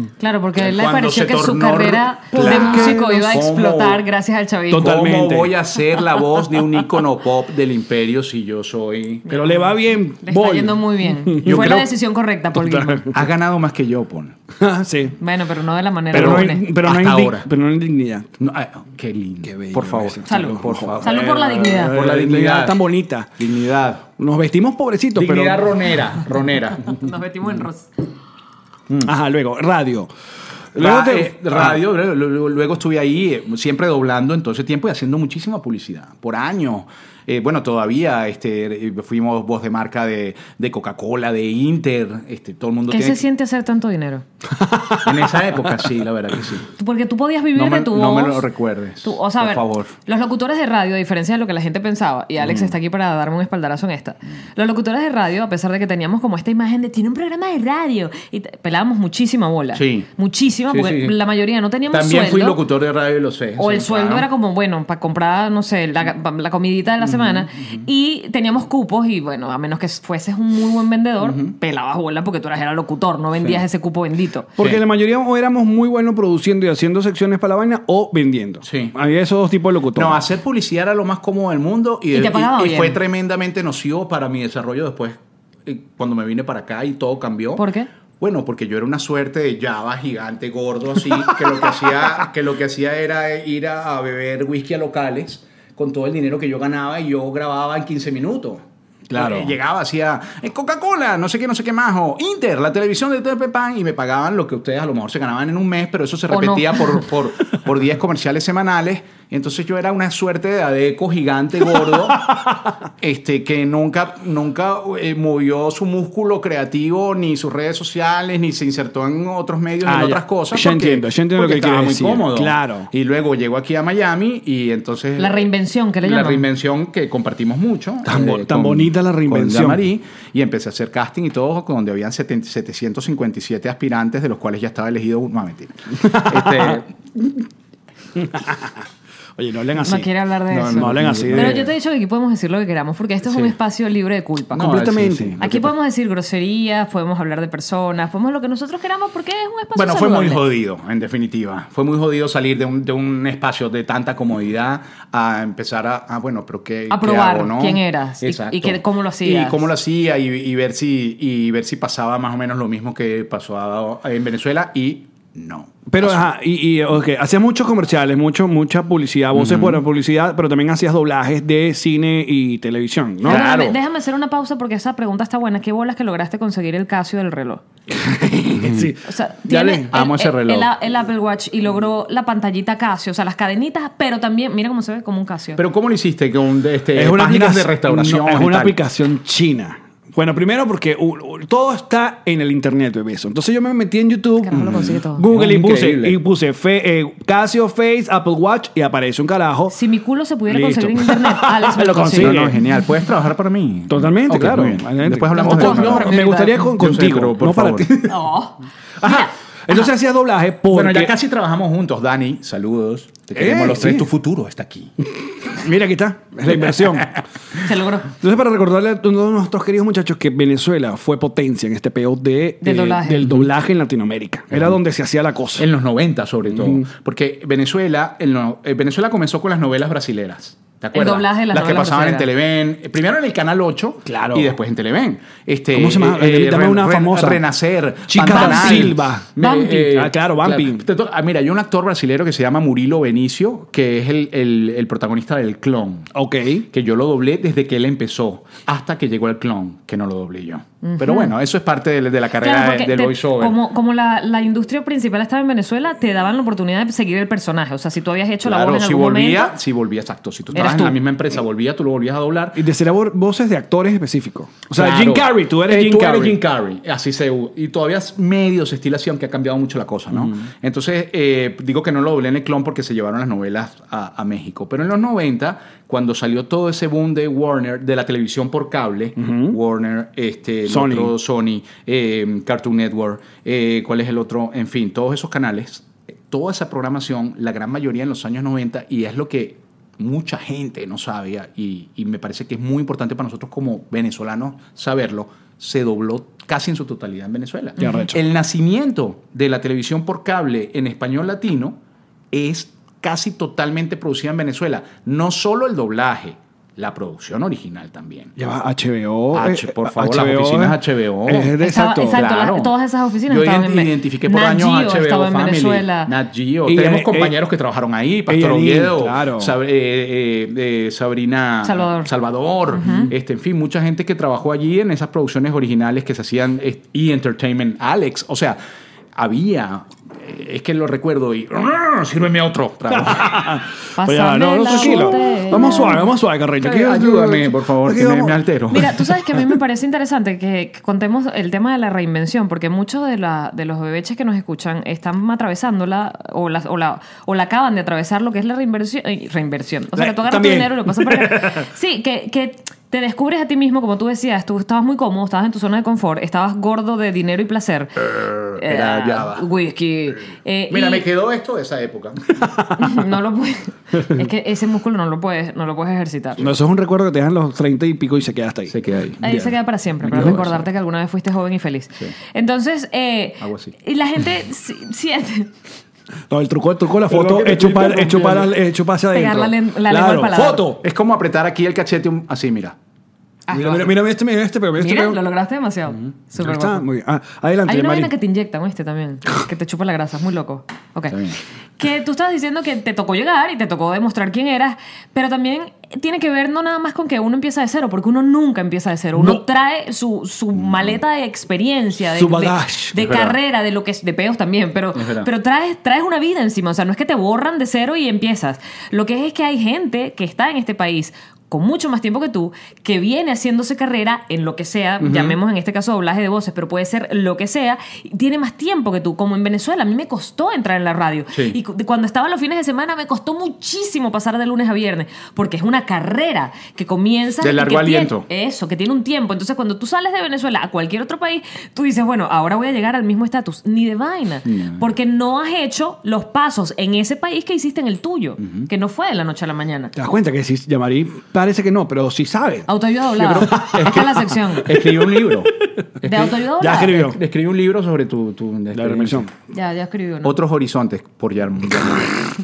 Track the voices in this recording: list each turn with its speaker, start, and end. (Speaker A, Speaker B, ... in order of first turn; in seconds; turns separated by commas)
Speaker A: 0.2-5.0, Speaker B: 0.6-4.0, Speaker C: 2.3-3.4, Speaker C: 4.7-5.5, Speaker B: 4.7-9.2, Speaker A: 9.3-13.1, Speaker C: 9.3-11.8, Speaker B: 11.4-11.9, Speaker C: 12.5-13.2, Speaker B: 13.1-14.4, Speaker C: 14.6-15.2, Speaker A: 15.2-16.6, Speaker C: 16.1-18.3, Speaker B: 16.1-17.5, Speaker B: 18.4-22.8, Speaker C: 19.4-23.4, Speaker A: 20.3-21.9, Speaker B: 23.4-24.1, Speaker C: 24.2-25.7, Speaker B: 25.1-27.1, Speaker A: 26.8-27.9, Speaker C: 29.0-30.1, Speaker C: 30.7-31.8, Speaker B: 30.8-43.2, Speaker A: 42.9-44.2, Speaker C: 44.7-45.1, Speaker B: 44.9-46.7, Speaker A: 46.8-48.5, Speaker B: 47.5-49.9, Speaker A: 49.0-62.6, Speaker B: 52.4-52.7, Speaker B: 59.7-60.1, Speaker B: 60.7-61.2, Speaker B: 61.9-64.3, Speaker A: 63.6-74.5, Speaker B: 67.0-67.9, Speaker B: 71.2-71.5, Speaker C: 74.6-80.2, Speaker B: 78.6-78.9, Speaker B: 79.9-87.7, Speaker A: 82.1-83.0, Speaker A: 87.6-87.9, Speaker B: 88.2-112.3, Speaker C: 99.1-99.5, Speaker A: 106.3-107.0, Speaker C: 111.7-112.7, Speaker B: 113.0-125.5, Speaker C: 119.8-122.9, Speaker A: 125.2-126.5, Speaker B: 126.0-137.4, Speaker C: 128.0-129.8, Speaker C: 136.0-136.8, Speaker C: 138.1-138.8, Speaker C: 139.3-141.7, Speaker A: 139.8-144.7, Speaker B: 140.5-141.7, Speaker B: 143.3-143.5, Speaker B: 144.5-145.7, Speaker C: 144.6-145.4, Speaker A: 145.4-150.4, Speaker B: 149.7-166.2, Speaker A: 156.9-159.7, Speaker C: 165.9-173.4, Speaker B: 169.3-169.8, Speaker B: 173.2-173.8, Speaker A: 173.2-177.6, Speaker C: 178.0-179.0, Speaker B: 178.4-178.9, Speaker A: 179.0-185.6, Speaker B: 179.5-180.7, Speaker B: 185.6-188.8, Speaker C: 186.9-194.6, Speaker A: 194.4-195.2, Speaker B: 194.5-196.2, Speaker C: 195.1-199.8, Speaker A: 199.7-202.5, Speaker C: 200.5-202.6, Speaker B: 202.1-208.1, Speaker C: 203.9-208.1, Speaker A: 205.3-206.7, Speaker A: 208.1-209.3, Speaker C: 209.0-211.1, Speaker B: 210.7-214.9, Speaker C: 213.3-214.1, Speaker C: 215.4-217.1, Speaker A: 217.6-218.1, Speaker C: 218.2-225.7, Speaker A: 222.6-223.4, Speaker B: 224.5-224.8, Speaker B: 225.6-246.1, Speaker C: 226.5-226.9, Speaker A: 230.9-232.3, Speaker C: 234.1-234.5, Speaker C: 235.7-237.4, Speaker C: 238.1-240.8, Speaker A: 238.3-238.9, Speaker C: 246.1-246.7, Speaker B: 246.7-253.6, Speaker A: 250.8-251.3, Speaker A: 252.4-259.6, Speaker B: 258.4-262.6, Speaker A: 260.5-260.9, Speaker C: 262.5-266.4, Speaker B: 264.7-301.8, Speaker C: 270.1-270.4, Speaker C: 279.2-279.6, Speaker C: 280.7-281.1, Speaker A: 297.8-298.1, Speaker C: 297.8-298.2, Speaker B: 302.3-308.3, Speaker C: 308.4-312.2, Speaker B: 309.3-312.7, Speaker A: 311.6-316.1, Speaker B: 313.3-328.6, Speaker C: 316.6-317.4, Speaker C: 318.3-319.6, Speaker A: 321.6-322.1, Speaker A: 322.7-323.1, Speaker B: 329.1-333.5, Speaker C: 332.9-338.4, Speaker A: 334.0-336.1, Speaker B: 334.7-335.9, Speaker B: 336.6-339.0, Speaker A: 338.7-358.0, Speaker C: 349.9-351.6, Speaker B: 358.1-359.4, Speaker A: 358.6-361.1, Speaker B: 360.7-362.4, Speaker A: 362.8-366.5, Speaker C: 366.4-369.5, Speaker B: 368.7-369.2, Speaker A: 369.2-375.5, Speaker B: 370.0-370.6, Speaker C: 370.1-370.4, Speaker B: 373.4-373.7, Speaker C: 376.3-380.8, Speaker B: 377.1-378.5, Speaker A: 379.1-380.7, Speaker B: 380.8-382.8, Speaker A: 383.5-383.9, Speaker C: 383.5-385.2, Speaker A: 384.8-386.8, Speaker C: 386.4-388.1, Speaker A: 387.6-391.2, Speaker B: 391.1-391.4, Speaker A: 391.8-439.9, Speaker C: 399.1-399.4, Speaker B: 400.6-400.9, Speaker C: 402.1-403.1, Speaker B: 403.0-403.4, Speaker B: 404.9-405.3, Speaker B: 415.0-415.4, Speaker B: 421.3-421.6, Speaker B: 427.4-428.3, Speaker B: 434.4-434.8, Speaker B: 438.4-438.7, Speaker C: 439.9-442.7, Speaker A: 442.7-444.7, Speaker B: 443.2-449.3, Speaker C: 443.2-445.4, Speaker A: 446.0-447.1, Speaker C: 446.6-447.2, Speaker C: 448.7-449.3, Speaker A: 449.5-450.4, Speaker B: 450.2-452.2